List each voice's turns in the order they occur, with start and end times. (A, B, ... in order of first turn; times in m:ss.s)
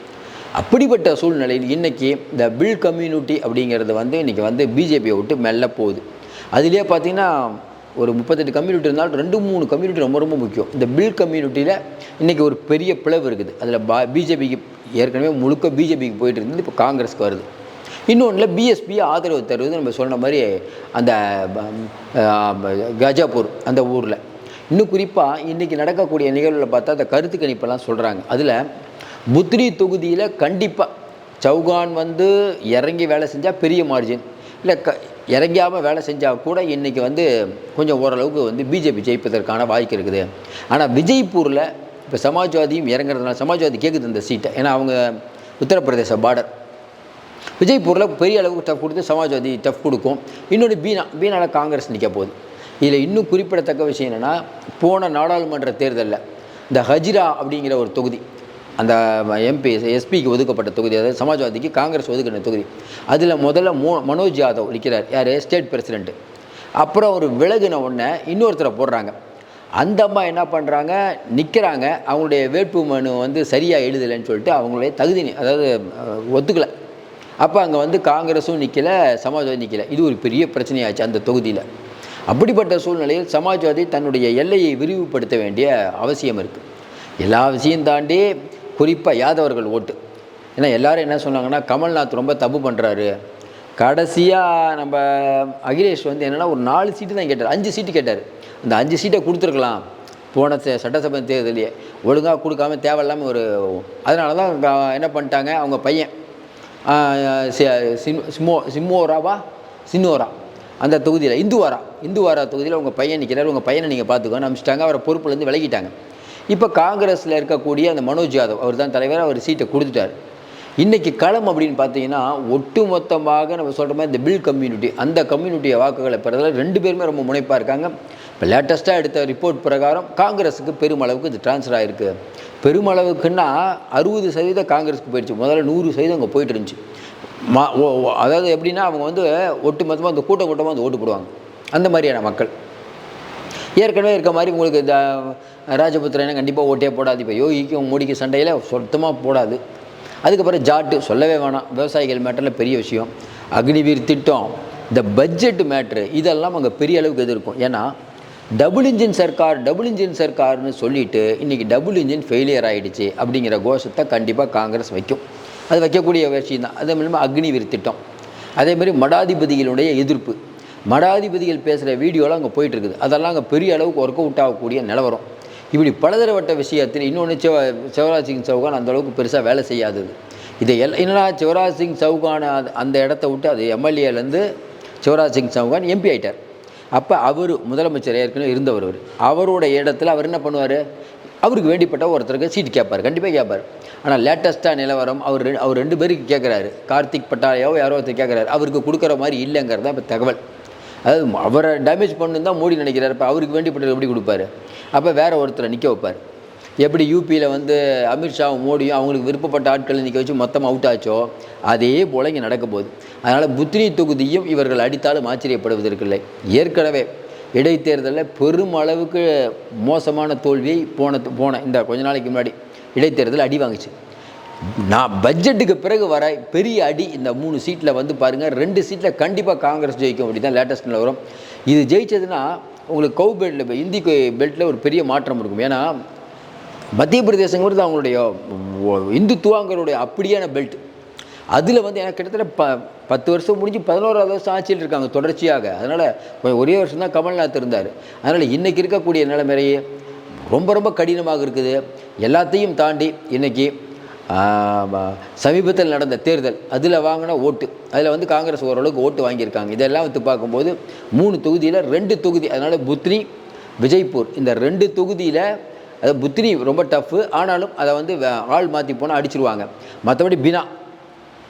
0:00.6-0:06.0 A
0:06.5-0:17.4 A
0:18.1-0:24.2 A
0:24.7-0:28.6 A
0:29.3-0:30.9 A
0:31.4-0:46.5 A
0:47.6-0:58.2 A
0:58.8-1:06.1 A
1:06.8-1:09.1 A
1:09.8-1:16.7 A
1:17.4-1:21.6 A
1:22.3-1:26.6 A
1:27.2-1:30.0 A
1:30.6-1:33.1 A
1:33.8-1:39.8 A
1:40.3-1:46.1 A
1:46.8-1:55.9 A
1:56.5-2:00.1 A
2:00.8-2:16.8 A
2:17.4-2:22.5 A
2:23.8-2:29.6 A
2:30.2-2:37.9 A
2:38.6-2:48.0 A
2:48.6-2:50.4 A
2:50.9-3:04.4 A
3:05.0-3:06.4 A
3:06.9-3:10.8 A
3:11.4-3:20.4 A
3:21.0-3:26.2 A
3:26.8-3:43.9 A
3:44.8-3:55.9 A
3:57.0-4:00.8 A
4:01.5-4:09.8 A
4:10.5-4:13.7 A
4:14.3-4:23.3 A
4:23.8-4:25.4 A
4:26.0-4:30.7 A